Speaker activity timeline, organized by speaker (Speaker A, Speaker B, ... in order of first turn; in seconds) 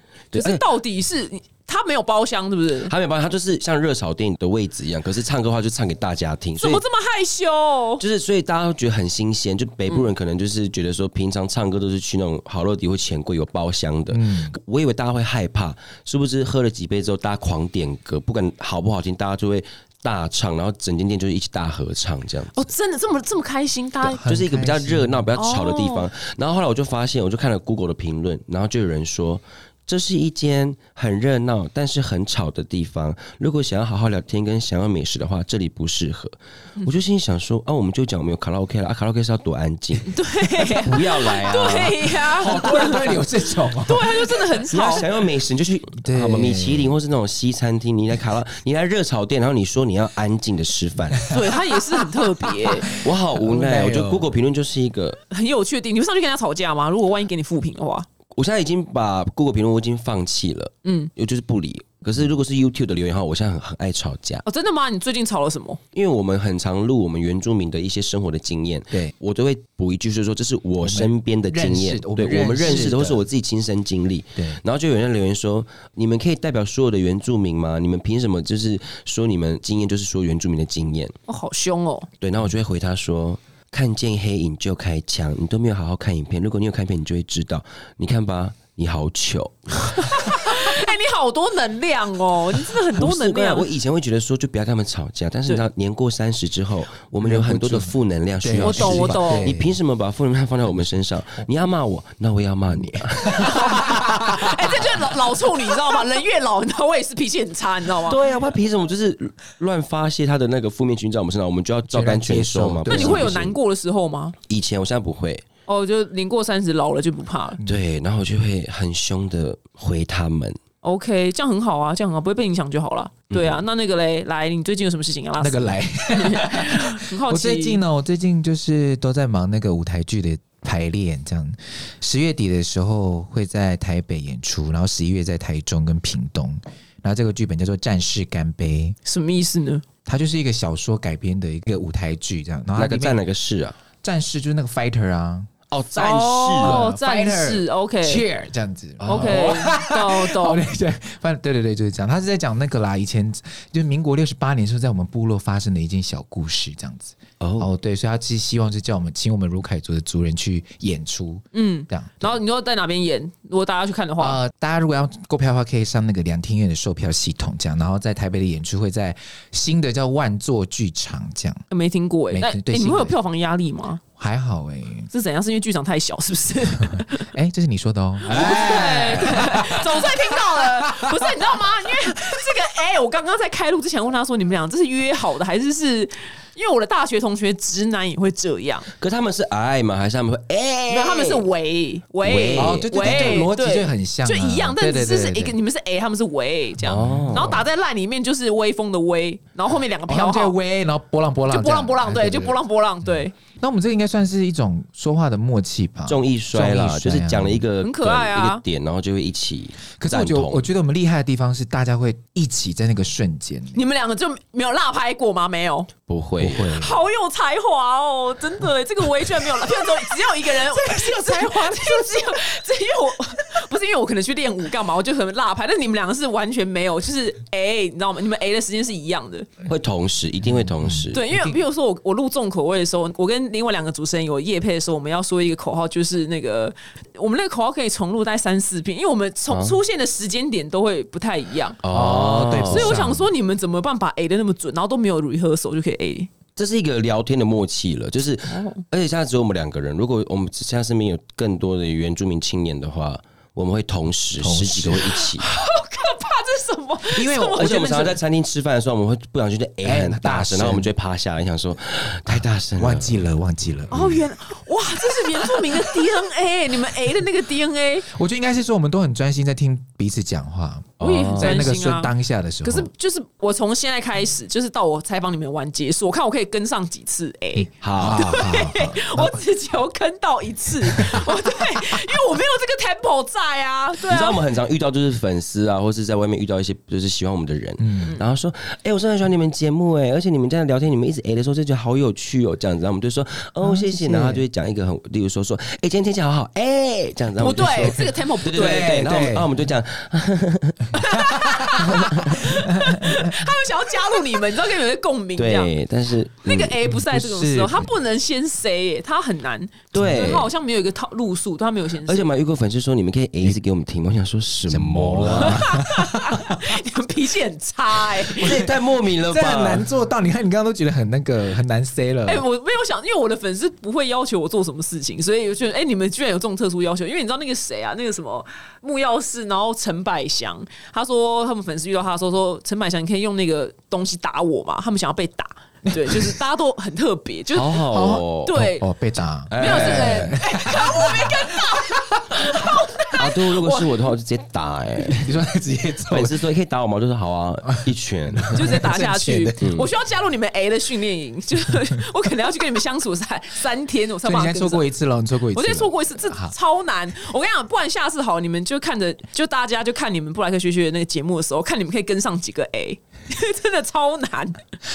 Speaker A: 0.3-2.9, 6.6-8.0, 22.5-24.2, 25.3-26.1, 40.1-45.1, 51.3-52.9, 55.3-58.1, 60.8-61.1, 64.4-65.8, 81.3-82.1, 89.9-93.7, 98.6-99.5, 103.3-108.2, 112.8-114.3, 115.7-117.6, 120.8-127.8, 139.0-139.8, 145.9-148.2, 149.1-150.6, 161.5-164.4, 171.7-174.0, 175.1-177.3, 178.2-188.9, 190.9-200.6, 201.5-203.3, 207.8-208.6, 213.7-215.9, 216.7-229.5, 231.1-241.8, 242.7-246.3, 248.5-248.8, 255.0-258.1, 263.9-268.1, 271.0-272.1, 272.6-284.4, 297.4-299.1, 300.9-305.7, 306.4-312.2, 315.4-318.7, 322.3-338.9, 339.6-343.9, 348.5-354.9, 355.5-364.6
Speaker B: 0.3-0.6, 2.9-6.8, 8.0-22.6, 24.2-40.2, 40.7-42.6, 44.7-51.3, 52.9-55.2, 58.3-64.4, 65.9-81.1, 82.2-90.1, 92.9-103.9, 108.0-113.5, 114.5-115.4, 117.6-120.6, 123.3-123.6, 142.8-143.7, 145.7-146.8, 149.0-149.6, 157.4-157.7, 189.0-191.5, 192.2-193.5, 196.8-197.6, 206.1-210.6, 216.1-216.8, 229.7-231.2, 239.5-239.8, 241.8-242.9, 246.6-255.5, 257.5-263.2, 271.0-271.6, 277.8-278.4, 284.0-301.0, 305.4-306.8, 309.9-310.5, 312.1-315.6, 318.3-319.9, 337.5-338.6, 339.5-340.4, 343.1-345.3, 346.1-348.8, 349.6-349.9
Speaker C: 14.1-14.5, 24.0-25.3, 42.3-44.2, 46.0-46.9, 51.2-51.5, 52.2-54.2, 70.8-73.2, 97.2-99.7, 102.7-104.6, 111.9-113.3, 125.4-139.0, 140.1-143.2, 144.0-145.5, 146.6-162.3, 164.2-171.6, 172.3-173.2, 174.2-175.1, 176.9-182.4, 192.6-195.6, 196.9-197.7, 200.1-202.6, 203.6-207.6, 210.0-213.8, 216.4-216.9, 219.9-222.4, 230.4-231.6, 241.9-243.3, 254.4-255.2, 257.1-258.2, 259.8-260.9, 262.3-264.2, 268.1-272.9, 278.0-279.3, 280.9-281.3, 287.8-288.2, 293.6-294.4, 298.5-299.5, 301.0-303.4, 306.8-307.9, 309.9-310.4, 314.7-316.8, 318.4-322.4, 336.0-336.3, 337.9-342.7, 345.1-346.4, 347.7-349.7, 354.2-356.5